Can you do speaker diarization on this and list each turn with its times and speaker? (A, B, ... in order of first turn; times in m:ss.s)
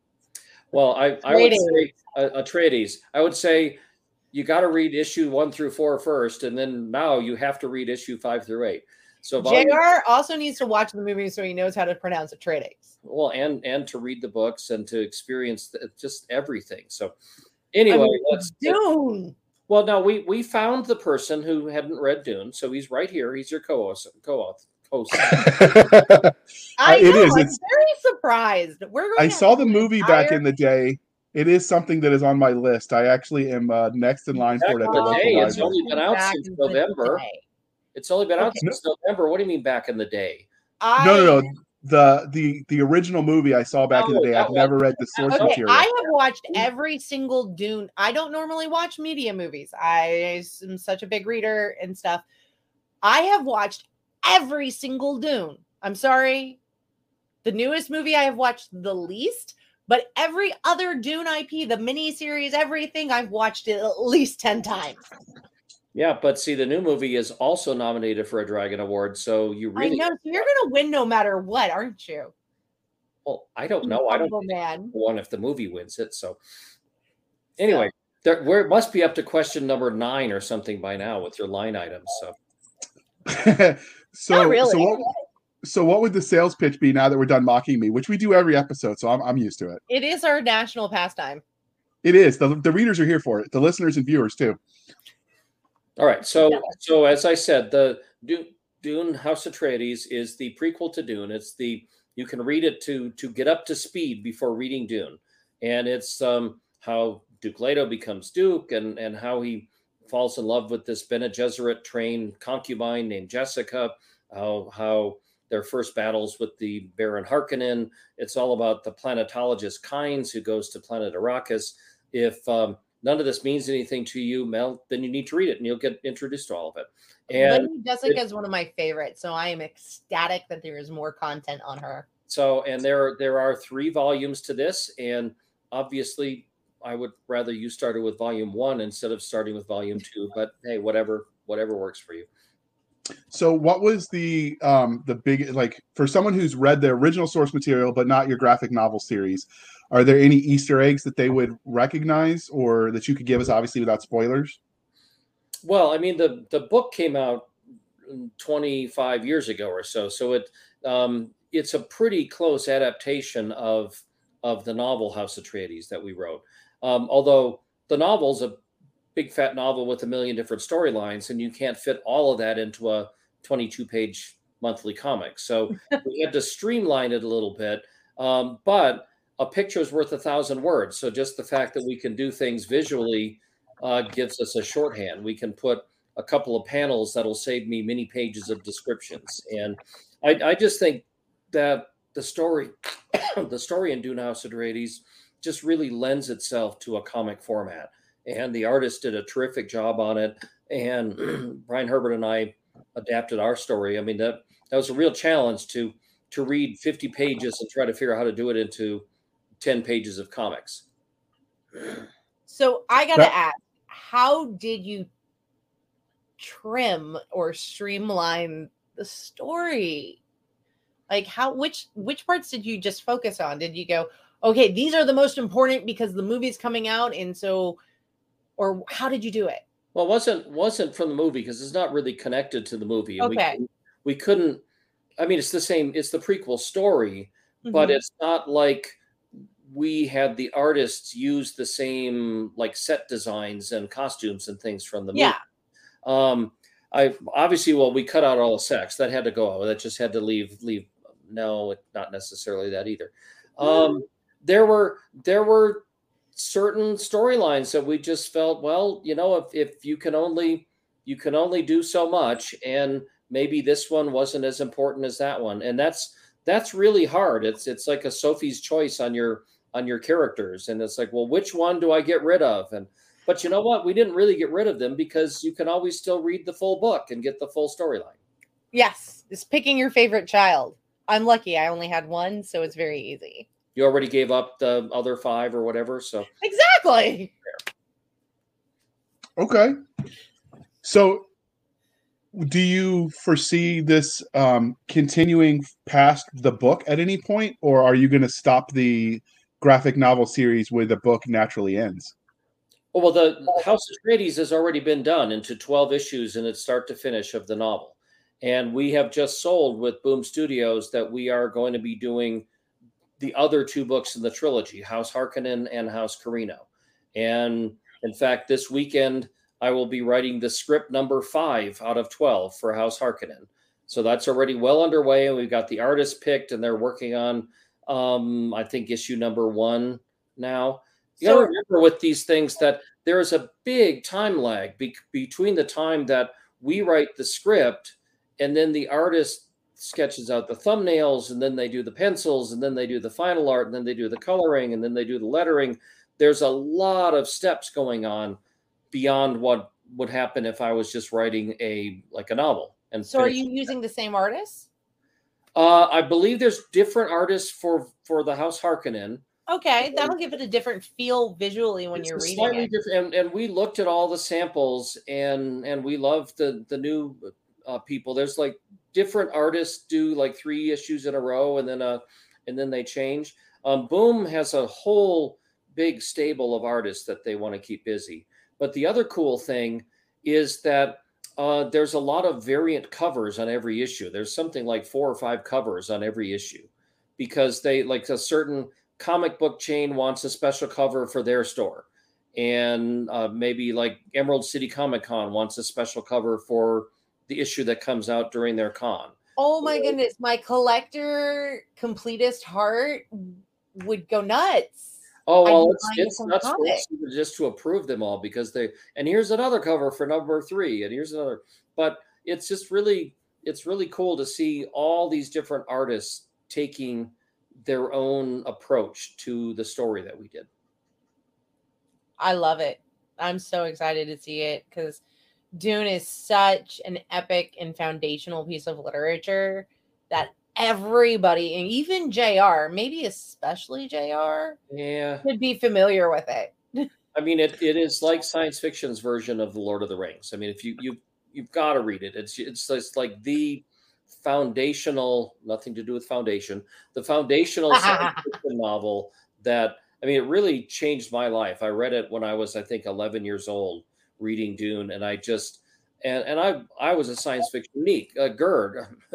0:00.7-0:03.8 A
0:01.3-0:01.9 B
0:04.3-0:09.8 A
0:09.4-0:12.9 B
0:13.0-0:17.1 A
0:17.7-0:18.8 A
0:17.9-0:19.3 B
0:19.7-0:25.6 A
0:25.3-0:27.6 C
0:26.8-0:30.4 B
0:29.2-0:35.7 C
0:34.6-0:37.2 A
0:34.7-0:37.4 B
0:37.9-0:40.5 A
0:40.8-0:41.5 B
0:41.0-0:45.9 C
0:43.9-0:45.6 A
0:45.3-0:52.2 B
0:53.0-0:56.6 B
0:57.4-1:05.0 B
1:05.9-1:10.2 A
1:09.8-1:12.3 B
1:13.2-1:16.4 A
1:13.8-1:14.9 B
1:17.6-1:22.3 A
1:23.2-1:25.0 C
1:24.3-1:25.1 B
1:25.6-1:29.8 C
1:29.9-1:31.4 B
1:32.0-1:34.6 C
1:36.0-2:08.2 A
2:07.3-2:12.1 B
2:12.3-2:22.3 A
2:23.3-2:34.6 C
2:35.6-2:37.5 A
2:38.0-2:48.6 A
2:49.1-3:29.0 A
3:29.6-3:30.8 A
3:32.5-3:35.1 B
3:36.4-3:40.2 B
3:41.1-3:47.8 B
3:48.6-3:49.6 B
3:49.9-3:54.6 A
3:53.2-3:53.6 B
3:55.2-3:59.0 A
3:57.6-3:58.0 B
3:59.6-4:05.3 A
4:05.1-4:05.4 B
4:06.0-4:15.8 A
4:13.6-4:13.9 B
4:16.3-4:38.2 A
4:38.7-4:43.5 B
4:43.7-4:46.3 A
4:46.4-4:47.3 B
4:49.4-4:49.8 C
4:50.8-4:51.2 C
4:52.3-5:02.1 C
5:02.9-5:12.4 A
5:13.2-5:48.4 A
5:31.2-5:31.5 B
5:48.9-5:53.4 A
5:53.1-5:54.7 B
5:55.5-5:59.2 A
5:59.5-6:02.7 B
5:59.9-6:00.1 A
6:02.0-6:40.0 A
6:39.4-6:44.9 B
6:45.3-6:57.1 A
6:45.4-6:46.8 B
6:57.6-7:00.5 A
7:02.2-7:05.0 B
7:05.5-7:14.6 B
7:14.7-7:15.2 A
7:15.2-7:16.9 B
7:17.1-7:39.0 A
7:27.7-7:28.2 B